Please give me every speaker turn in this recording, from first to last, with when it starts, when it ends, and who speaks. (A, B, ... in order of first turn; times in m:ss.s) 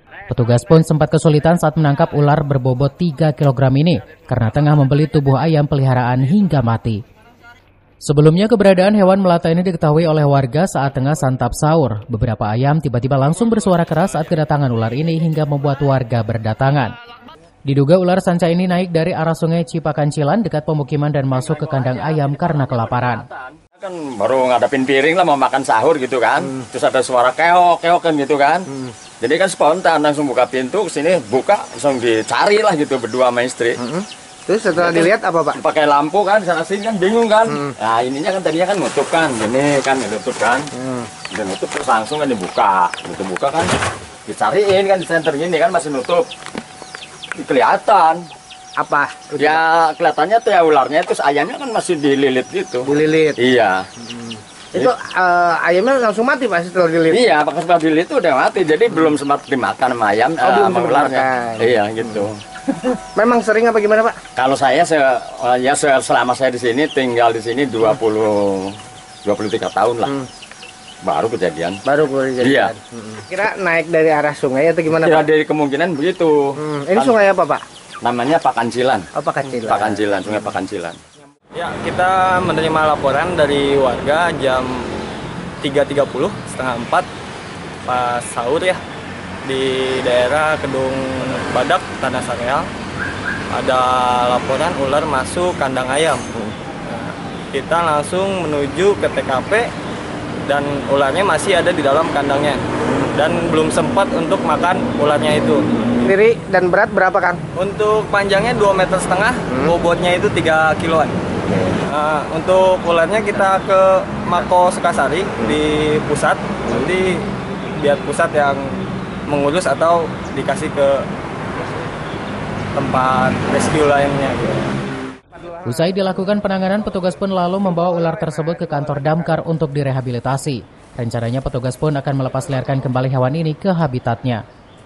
0:00.3-0:07.0 A
0:08.0-0:16.9 A
0:17.7-0:23.2 A
0:21.4-0:33.8 B
0:33.8-0:35.6 C
0:34.8-0:40.7 B
0:40.8-0:41.1 C
0:41.3-0:43.7 B
0:44.3-0:46.3 B
0:47.3-0:48.3 B
0:48.8-0:49.6 C
0:49.4-0:53.8 B
0:52.9-0:53.4 C
0:54.7-0:57.2 C
0:57.1-1:02.9 B
1:00.4-1:01.8 C
1:03.2-1:04.2 C
1:04.4-1:10.2 B
1:11.0-1:11.8 B
1:11.9-1:15.2 C
1:12.4-1:12.7 B
1:14.9-1:17.2 B
1:16.6-1:17.6 C
1:18.0-1:19.1 B
1:19.2-1:20.0 C
1:19.6-1:21.0 B
1:21.5-1:24.9 D
1:25.6-1:27.1 D
1:27.8-1:28.8 D
1:29.4-1:32.7 D
1:33.5-1:36.3 D
1:36.9-1:39.7 D
1:40.5-1:45.7 D
1:46.0-1:47.4 C
1:47.5-1:51.2 D
1:51.5-1:51.8 C
1:51.8-2:01.1 D
2:02.7-2:04.7 D
2:05.3-2:06.3 C
2:05.6-2:14.4 A
2:07.8-2:09.4 C